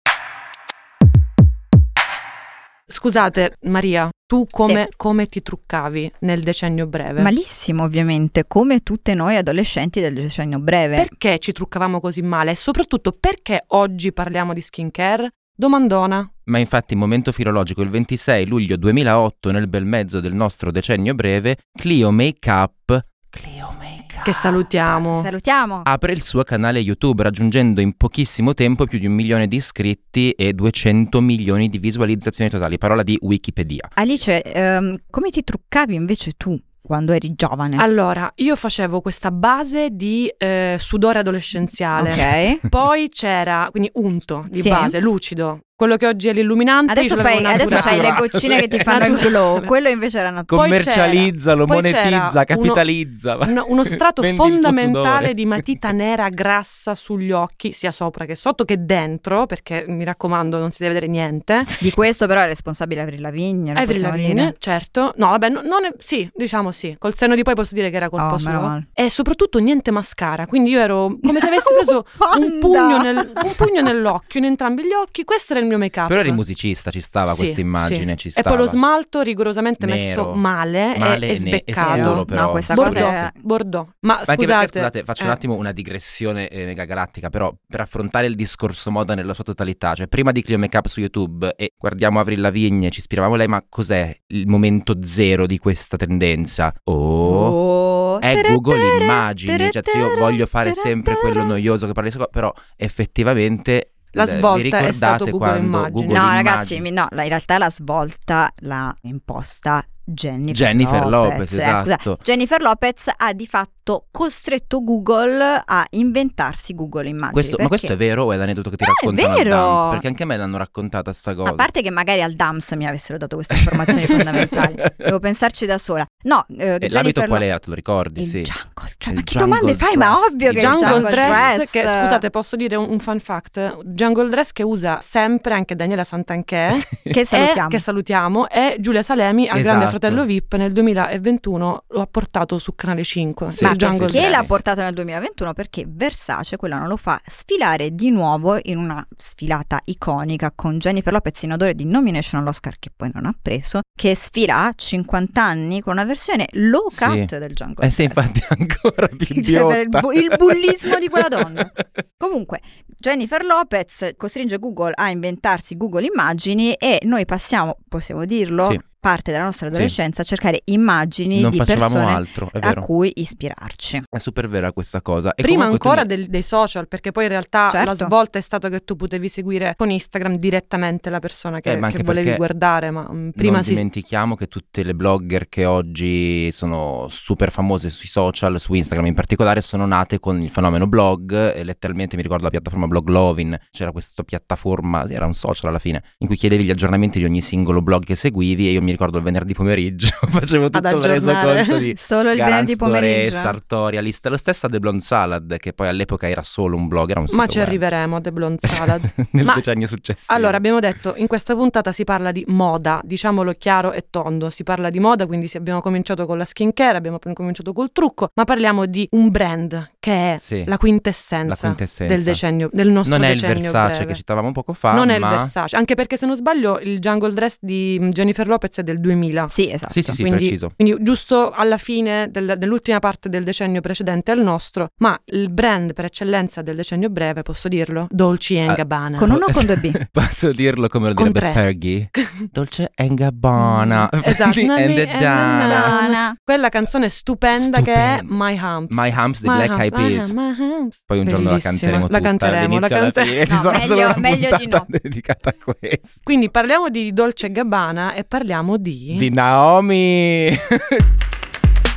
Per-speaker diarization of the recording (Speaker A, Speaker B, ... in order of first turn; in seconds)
Speaker A: 2.9-7.3, 10.9-16.3, 24.2-25.3, 37.8-48.3, 48.9-49.7, 50.5-52.9, 53.4-61.8, 63.8-76.4, 77.3-85.4, 104.1-106.3, 130.5-144.5, 175.4-183.8, 200.7-201.8, 207.3-209.6, 210.3-224.2, 224.9-229.5, 230.2-239.3, 241.2-241.6, 242.2-242.4, 243.6-253.6, 256.2-259.3
Speaker B: 7.2-11.1, 25.1-25.9, 34.0-37.8, 42.0-42.6, 44.5-45.0, 46.9-51.0, 61.7-64.5, 68.2-68.8, 71.3-73.6, 81.8-83.3, 97.2-101.6, 106.1-117.9, 118.8-120.0, 121.4-127.4, 128.2-132.2, 137.1-137.8, 143.6-158.3, 159.3-174.1, 177.7-178.1, 201.9-203.6, 229.5-230.2, 239.2-240.0, 245.6-246.4, 253.5-254.9
Speaker C: 16.5-24.7, 25.9-33.9, 47.5-49.3, 50.5-55.8, 76.1-78.8, 79.8-80.4, 81.0-83.3, 84.3-97.6, 98.2-106.8, 110.5-112.2, 117.3-121.7, 123.5-125.1, 126.8-128.5, 129.1-131.5, 136.8-137.1, 139.5-140.2, 143.5-144.6, 156.9-161.8, 171.3-172.8, 174.1-176.1, 181.7-182.4, 183.4-207.8, 208.6-210.6, 220.4-220.7, 221.5-222.4, 223.0-225.5, 229.9-230.7, 238.7-246.0, 247.6-248.3, 248.9-250.3, 251.1-256.2, 259.1-261.0